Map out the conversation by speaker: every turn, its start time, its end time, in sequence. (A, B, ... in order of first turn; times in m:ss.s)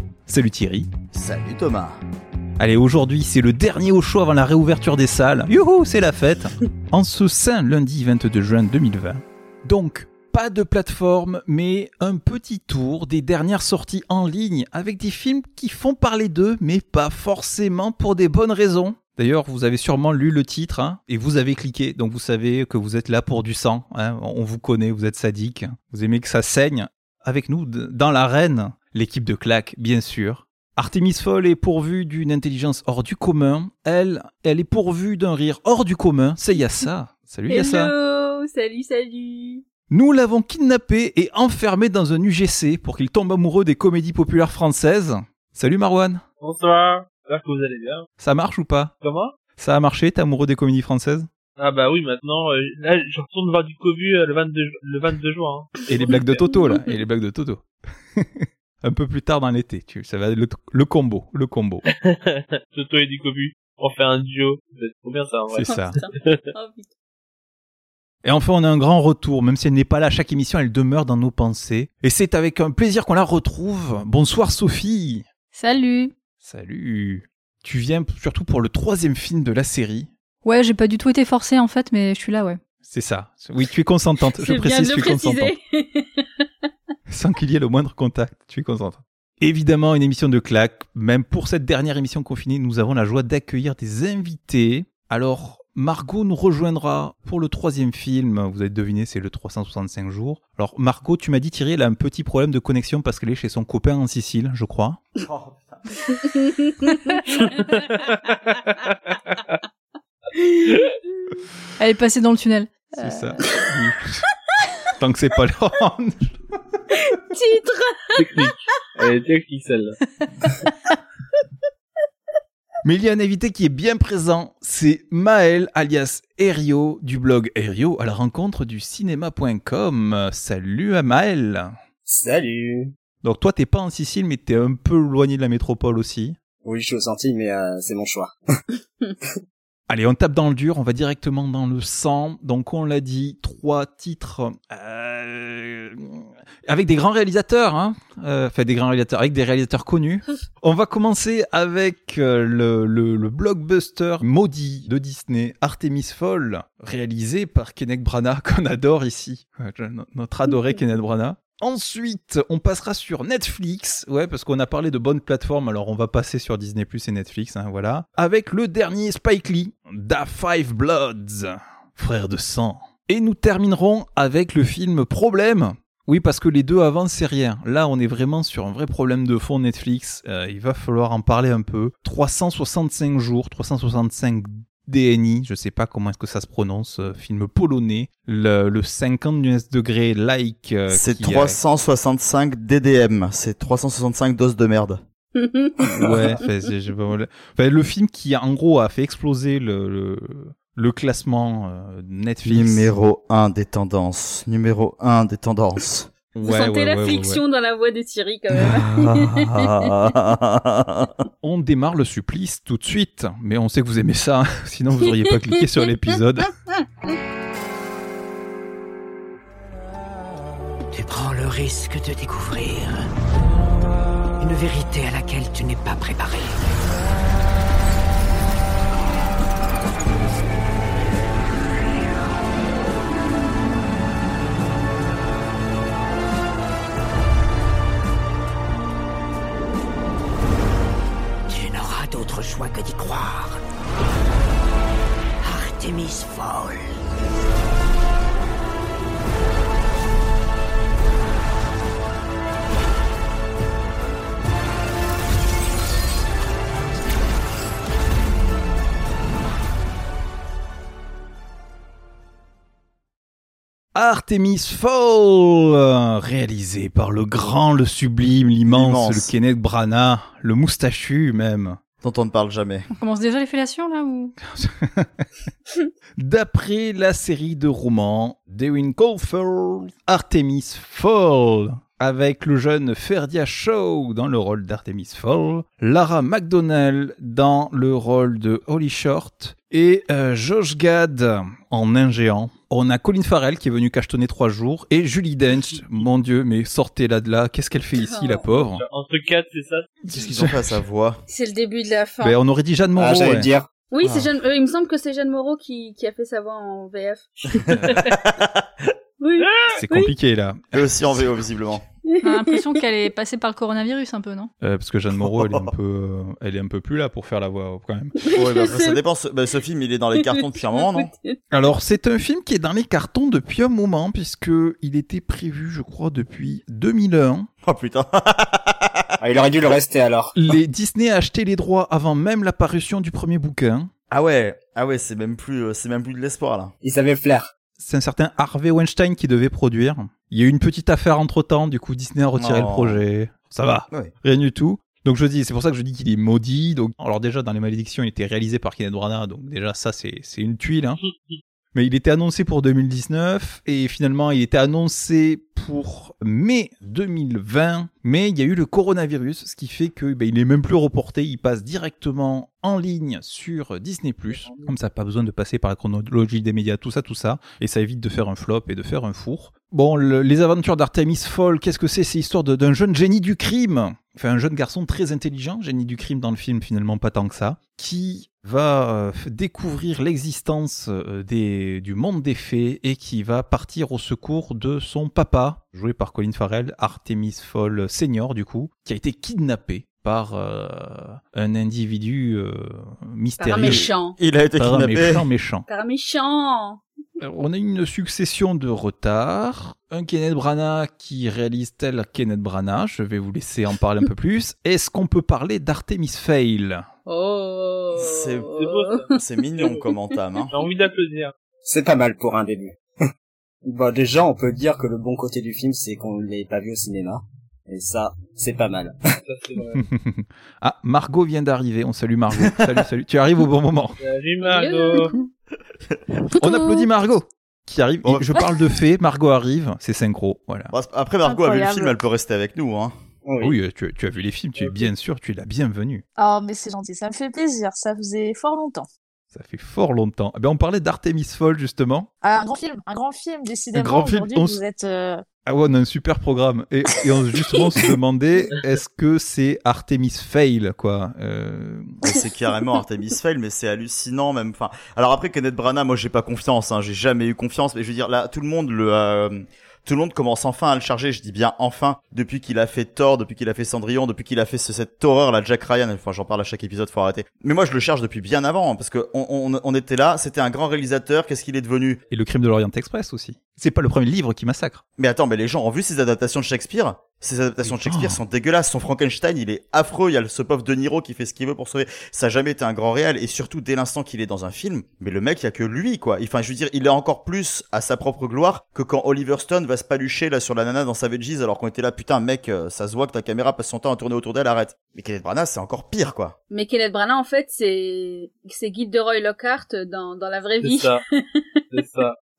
0:00.3-0:00.9 A
0:01.1-0:02.0 B
0:02.6-0:37.9 A
0:37.5-0:39.6 C
0:39.9-0:46.2 A
0:46.4-0:48.1 D
0:48.2-0:48.9 A
0:49.0-0:49.4 D
0:49.6-0:51.3 A
0:51.6-0:55.7 D
0:55.9-1:01.8 A
1:01.9-1:06.5 D
1:05.5-1:06.0 A
1:05.7-1:06.9 C
1:08.2-1:15.3 A
1:15.5-1:16.1 E
1:16.4-1:20.1 A
1:20.4-1:22.6 E
1:22.8-1:25.5 A
1:24.4-1:26.5 C
1:27.1-1:45.0 A
1:45.2-1:46.2 B
1:46.2-1:47.2 C
1:47.3-1:49.6 D
1:50.4-1:50.7 C
1:51.8-1:53.3 E
1:53.0-1:54.3 A
1:54.9-1:56.4 A
1:57.1-1:58.2 C
1:58.2-2:00.0 D
2:02.8-2:11.7 A
2:12.1-2:12.9 F
2:13.2-2:16.4 A
2:16.6-2:18.4 F
2:19.9-3:11.6 A
3:10.9-3:15.0 B
3:15.4-3:16.0 C
3:16.0-3:22.9 A
3:22.4-3:26.1 B
3:26.4-3:27.4 A
3:26.4-3:29.8 C
3:28.6-3:31.2 B
3:31.4-3:36.5 A
3:40.9-3:43.0 G
3:44.4-3:46.6 G
4:01.5-4:03.6 G
4:05.4-4:07.0 G
4:23.9-4:31.8 A
4:28.7-4:29.3 B
4:32.0-4:32.9 B
4:32.9-4:34.4 E
4:34.4-4:35.3 A
4:36.2-4:58.8 A
4:58.1-4:58.4 C
4:58.6-4:59.9 D
5:00.1-5:00.8 A
5:00.1-5:01.2 B
5:01.3-5:02.4 C
5:02.2-5:03.5 A
5:03.0-5:03.7 F
5:03.9-5:07.4 C
5:04.0-5:04.3 B
5:07.6-5:08.9 B
5:07.7-5:08.1 A
5:09.2-5:10.1 C
5:09.4-5:09.7 D
5:09.7-5:11.4 A
5:10.7-5:11.8 B
5:12.1-5:12.6 C
5:12.2-5:14.5 E
5:14.6-5:18.2 A
5:15.1-5:15.7 B
5:18.2-5:19.0 C
5:18.3-5:21.1 B
5:20.6-5:21.4 C
5:21.5-5:27.5 A
5:27.6-5:29.1 B
5:29.2-5:30.6 F
5:30.4-5:33.9 A
5:34.1-5:36.7 B
5:36.8-5:37.5 F
5:37.8-5:51.0 A
5:42.4-5:43.0 B
5:51.8-6:33.9 A
6:04.3-6:04.7 D
6:33.4-6:34.2 C
6:33.6-6:35.2 B
6:34.6-6:35.7 A
6:35.7-6:36.8 C
6:37.2-6:46.9 A
6:47.1-6:49.0 C
6:48.0-6:48.5 B
6:48.6-6:49.9 D
6:49.2-6:50.5 B
6:50.5-6:51.3 D
6:51.6-6:53.0 F
6:53.6-6:59.2 F
6:59.2-6:59.8 D
6:59.8-7:04.0 A
7:04.0-7:05.2 D
7:04.4-7:05.1 C
7:06.4-7:10.7 A
7:08.0-7:08.5 B
7:10.7-7:13.0 B
7:11.2-7:12.0 H
7:13.2-7:13.5 F
7:13.4-7:16.0 A
7:16.2-7:18.9 H
7:19.3-7:22.1 A
7:22.2-7:25.2 H
7:23.8-7:24.6 A
7:25.5-7:31.9 A
7:32.0-7:52.0 B
7:52.1-7:54.8 A
7:55.0-8:16.4 B
7:57.6-7:58.2 A
8:16.5-8:21.4 C
8:20.6-8:21.0 D
8:21.7-8:22.2 D